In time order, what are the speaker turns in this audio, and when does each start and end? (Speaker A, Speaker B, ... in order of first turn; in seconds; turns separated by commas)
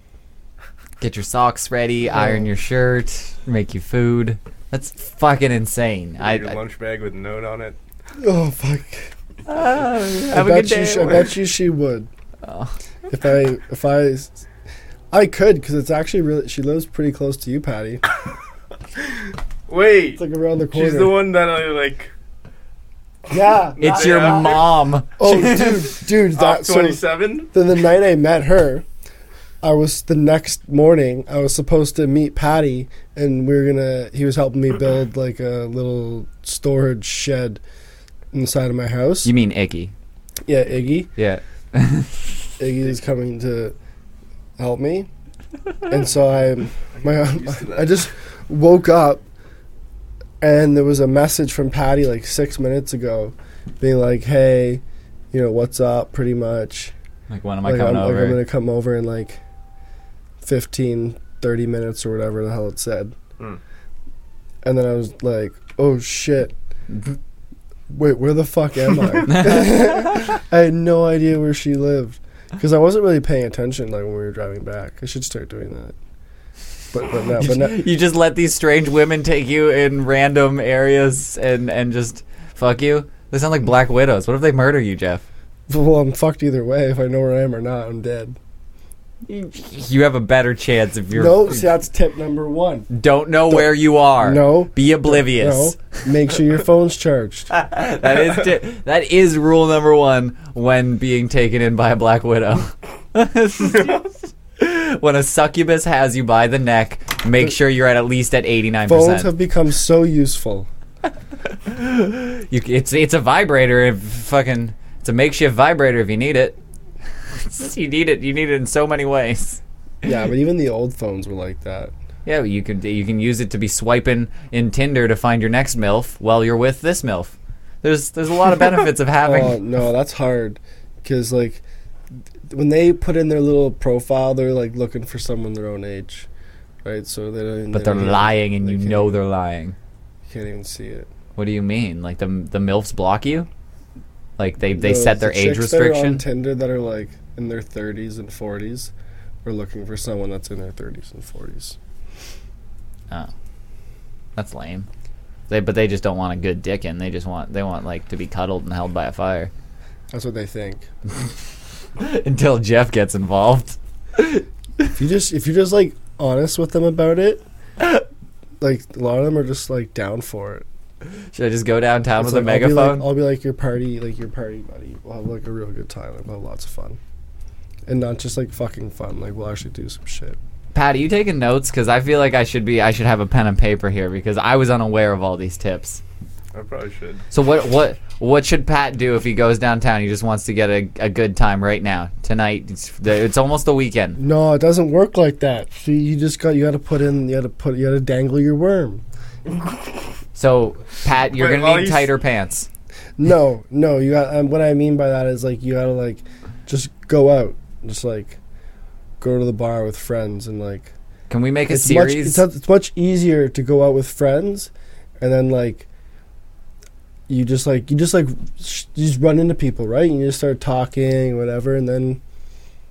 Speaker A: 1.0-6.6, Speaker B: 2.1-2.5, Speaker C: 6.2-7.8, Speaker B: 8.2-9.1, Speaker A: 9.5-11.3, Speaker B: 10.3-12.1, Speaker A: 12.4-12.7, Speaker B: 13.1-14.4, Speaker B: 15.1-18.0, Speaker C: 19.7-20.2, Speaker B: 20.2-21.2, Speaker C: 20.7-22.1, Speaker B: 23.3-24.5, Speaker C: 23.8-24.7, Speaker A: 23.8-26.0, Speaker B: 25.2-28.8, Speaker C: 26.3-27.5, Speaker B: 29.6-37.6, Speaker B: 38.3-39.3, Speaker A: 39.2-39.9, Speaker B: 40.5-41.1, Speaker A: 41.2-42.3, Speaker B: 42.6-43.7, Speaker B: 44.6-45.1, Speaker B: 45.9-49.2, Speaker C: 46.9-48.0, Speaker B: 50.4-56.9, Speaker A: 57.3-58.4, Speaker B: 57.6-59.4, Speaker B: 60.4-63.1, Speaker B: 64.6-66.5, Speaker B: 67.9-75.9, Speaker A: 69.3-70.2, Speaker B: 76.9-77.8, Speaker A: 77.4-85.2, Speaker B: 85.7-88.4, Speaker A: 89.3-91.7, Speaker B: 91.1-92.9, Speaker A: 92.9-95.8, Speaker B: 93.5-97.5, Speaker A: 97.5-104.0, Speaker A: 104.6-109.3, Speaker B: 108.8-110.7, Speaker A: 111.6-116.6, Speaker A: 117.3-119.6, Speaker B: 120.0-121.9, Speaker A: 122.2-129.6, Speaker B: 129.2-131.6, Speaker B: 132.5-136.3, Speaker B: 136.8-139.2, Speaker A: 137.7-139.8, Speaker B: 140.3-141.1, Speaker A: 141.3-143.5, Speaker A: 144.4-146.2, Speaker B: 144.7-148.9, Speaker B: 149.4-151.8, Speaker A: 154.3-154.9, Speaker A: 155.5-159.5, Speaker B: 160.1-160.9, Speaker A: 162.0-164.8, Speaker B: 164.9-167.4, Speaker B: 168.6-170.7, Speaker A: 171.3-173.0, Speaker B: 172.2-177.0, Speaker B: 177.9-180.4, Speaker A: 180.7-186.0, Speaker C: 186.5-187.2, Speaker A: 187.3-194.2, Speaker B: 194.2-199.0, Speaker A: 200.3-202.7, Speaker C: 201.3-202.1, Speaker B: 203.2-208.4, Speaker B: 209.2-210.9, Speaker A: 211.3-212.4, Speaker B: 211.7-215.9, Speaker B: 217.3-222.2